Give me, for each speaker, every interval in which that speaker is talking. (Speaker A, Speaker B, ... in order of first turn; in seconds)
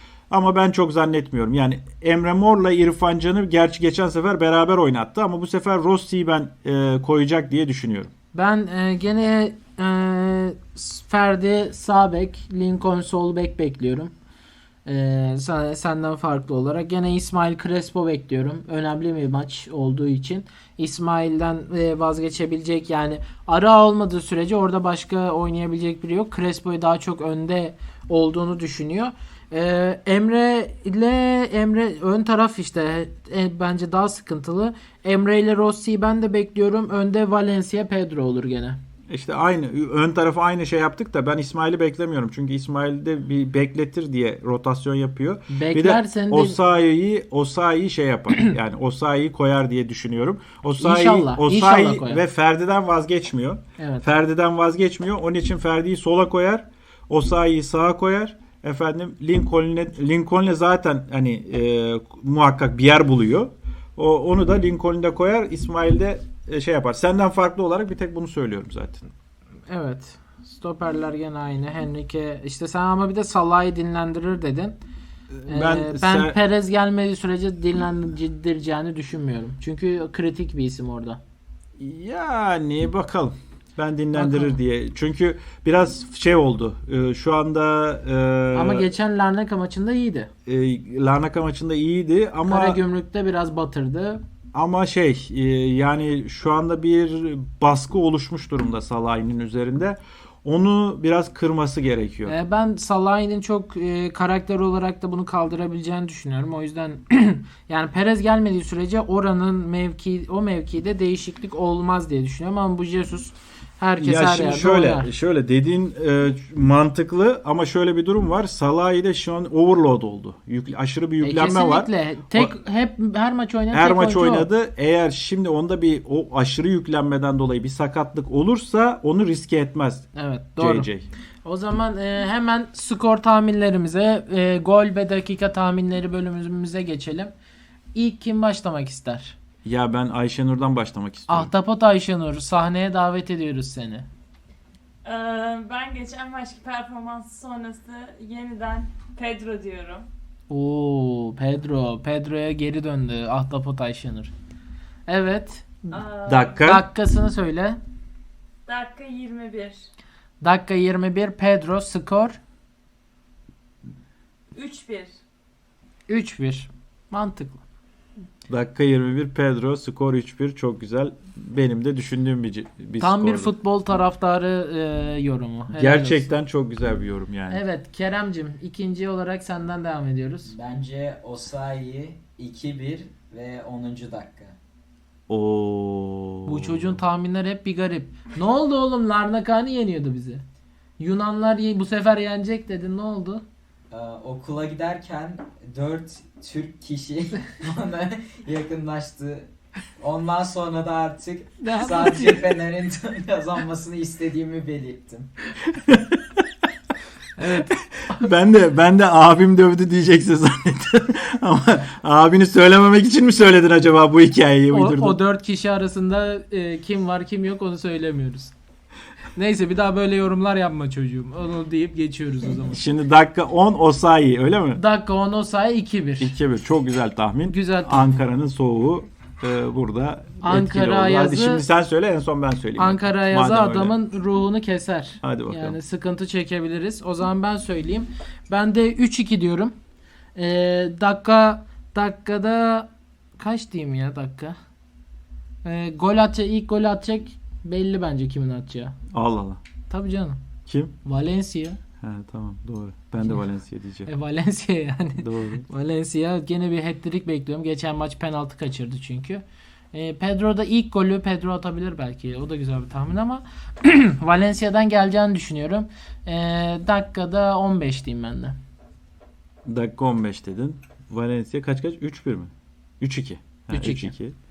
Speaker A: 0.3-8.1, 39.1-69.1, 75.3-76.4, 81.8-88.9, 90.5-92.8, 94.5-102.3, 114.0-122.5, 123.7-130.1, 130.6-131.1, 139.6-141.5, 156.3-156.8, 168.5-173.5, 175.8-177.6, 185.3-187.0, 205.7-206.4, 207.5-215.2, 222.7-224.8, 226.2-233.9, 235.2-235.8, 249.1-249.6, 250.7-250.9, 252.0-254.1, 255.2-255.7, 269.7-274.4
Speaker B: 8.3-14.1, 14.9-38.8, 45.5-46.6, 50.8-52.2, 53.8-54.1, 69.7-74.8, 75.5-81.2, 84.1-84.6, 88.5-90.3, 92.5-94.2, 102.3-115.1, 121.2-124.5, 130.2-130.9, 131.4-137.3, 137.9-139.4, 141.3-144.1, 150.5-154.3, 155.1-156.0, 156.6-157.8, 160.4-162.4, 166.1-167.6, 173.0-176.3, 177.5-180.5, 186.5-190.4, 191.0-193.4, 201.6-202.5, 207.4-207.7, 214.7-218.5, 219.3-222.8, 224.8-226.3, 227.5-228.2, 230.4-231.6, 232.8-239.7, 240.3-244.6, 245.6-248.9, 249.9-250.4, 251.0-251.8, 254.1-268.6, 273.7-274.1
Speaker C: 145.1-150.1, 155.9-156.6, 158.7-159.8, 164.6-165.2
Speaker D: 180.5-184.6, 193.9-205.3